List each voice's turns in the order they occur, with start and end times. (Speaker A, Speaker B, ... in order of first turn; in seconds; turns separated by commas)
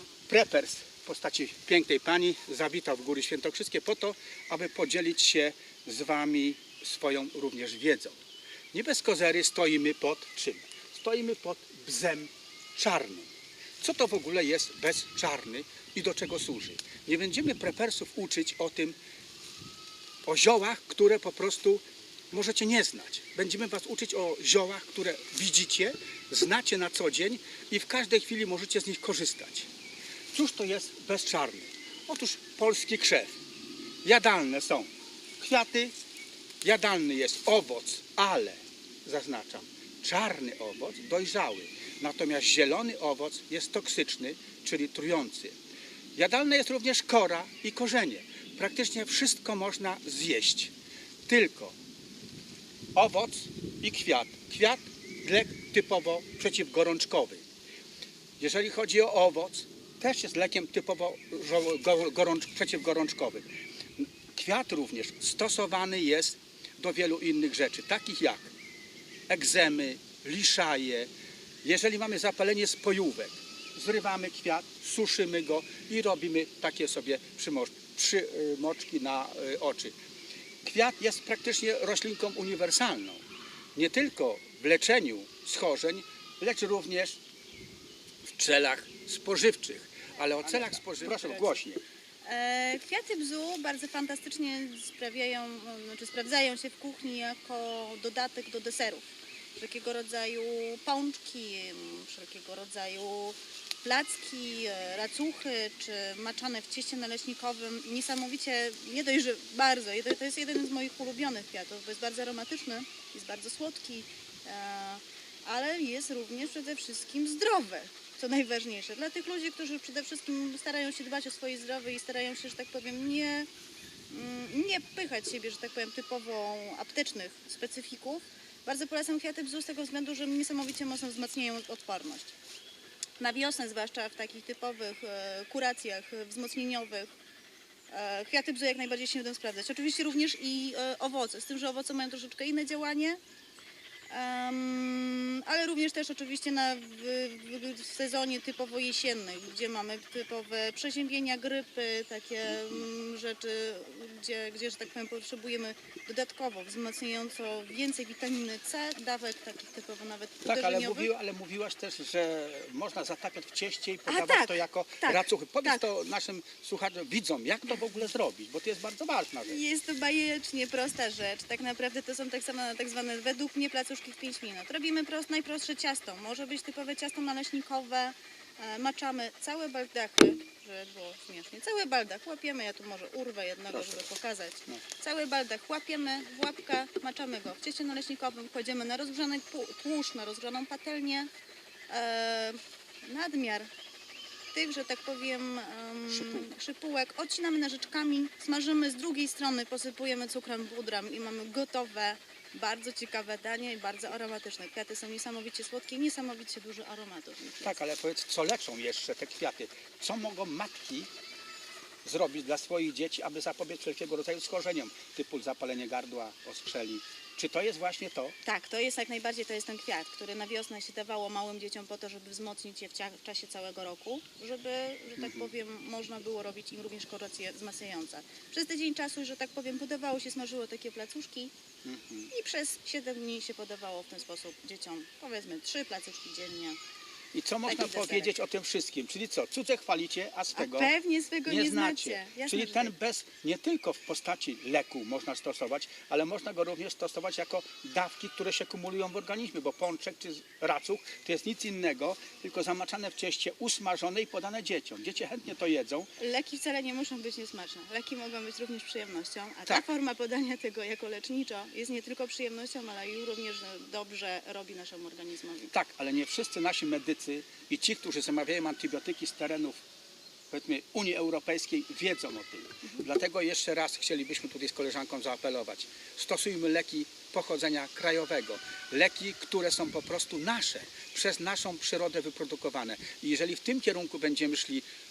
Speaker A: 0.3-8.2, Speaker A: 8.7-13.3, Speaker A: 13.8-19.0, Speaker A: 20.2-29.7, Speaker A: 30.3-33.3, Speaker A: 34.0-35.9, Speaker A: 36.6-45.6, Speaker A: 46.2-50.7, Speaker A: 51.3-51.8, Speaker A: 52.9-57.4, Speaker A: 58.4-63.5, Speaker A: 64.0-68.5, Speaker A: 69.3-71.1, Speaker A: 71.6-80.0, Speaker A: 80.6-83.2, Speaker A: 83.8-87.2, Speaker A: 88.3-91.8, Speaker B: 91.0-91.6, Speaker B: 92.2-123.5, Speaker B: 124.1-132.3, Speaker B: 133.2-137.1, Speaker B: 137.9-143.2, Speaker B: 144.1-161.1, Speaker A: 160.5-169.6, Speaker B: 164.1-165.8, Speaker B: 169.5-191.3, Speaker B: 191.9-193.7, Speaker B: 194.5-207.8, Speaker A: 196.1-196.5, Speaker A: 207.6-211.1, Speaker A: 212.0-218.4, Speaker B: 218.4-231.5, Speaker A: 225.2-225.5, Speaker A: 231.8-232.3, Speaker B: 232.3-236.8, Speaker A: 237.3-240.9, Speaker B: 237.7-238.3, Speaker B: 240.6-242.9, Speaker A: 241.5-256.1, Speaker B: 256.2-265.7, Speaker A: 265.7-269.8, Speaker A: 270.5-284.9